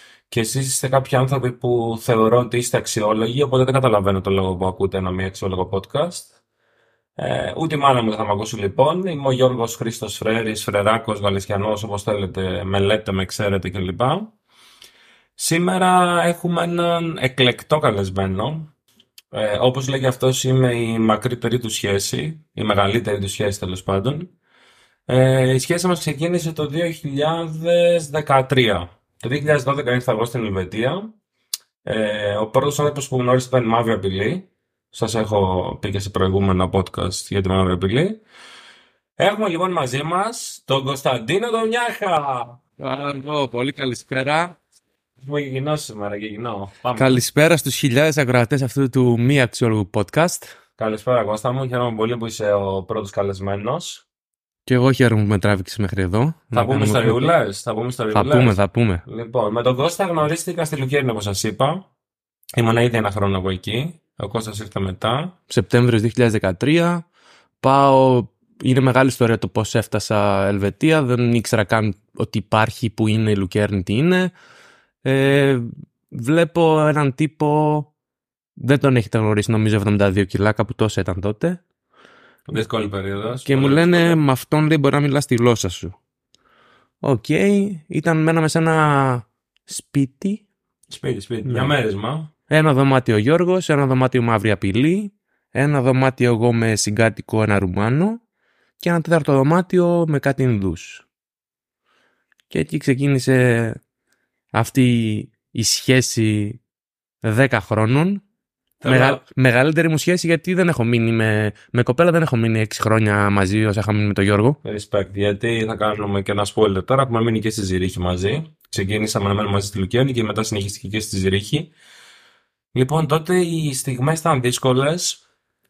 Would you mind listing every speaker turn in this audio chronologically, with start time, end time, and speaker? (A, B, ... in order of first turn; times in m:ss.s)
0:00.3-0:06.3 A
0:07.2-0:14.3 A
0:15.4-0:18.7 A
0:19.3-0:24.3 A
0:25.1-0:31.1 A
0:31.8-0:38.2 A
0:39.2-0:42.6 A
0:42.8-0:44.6 B
0:45.2-0:47.2 A
0:47.0-0:50.5 B
0:50.8-0:54.0 A
0:54.7-0:57.3 B
0:56.5-1:01.9 A
0:58.1-0:59.0 B
1:02.6-1:05.4 A
1:05.5-1:07.0 B
1:07.6-1:14.3 B
1:15.0-1:17.9 B
1:18.6-1:21.6 B
1:22.5-1:24.2 A
1:23.5-1:26.0 B
1:27.0-1:30.4 B
1:30.9-1:32.3 A
1:31.4-1:31.8 B
1:32.5-1:38.2 B
1:38.8-1:41.0 B
1:42.5-1:43.8 B
1:44.5-1:46.6 B
1:47.2-1:48.2 B
1:48.8-1:49.2 A
1:48.8-1:54.6 B
1:54.6-2:01.7 A
2:02.7-2:05.2 A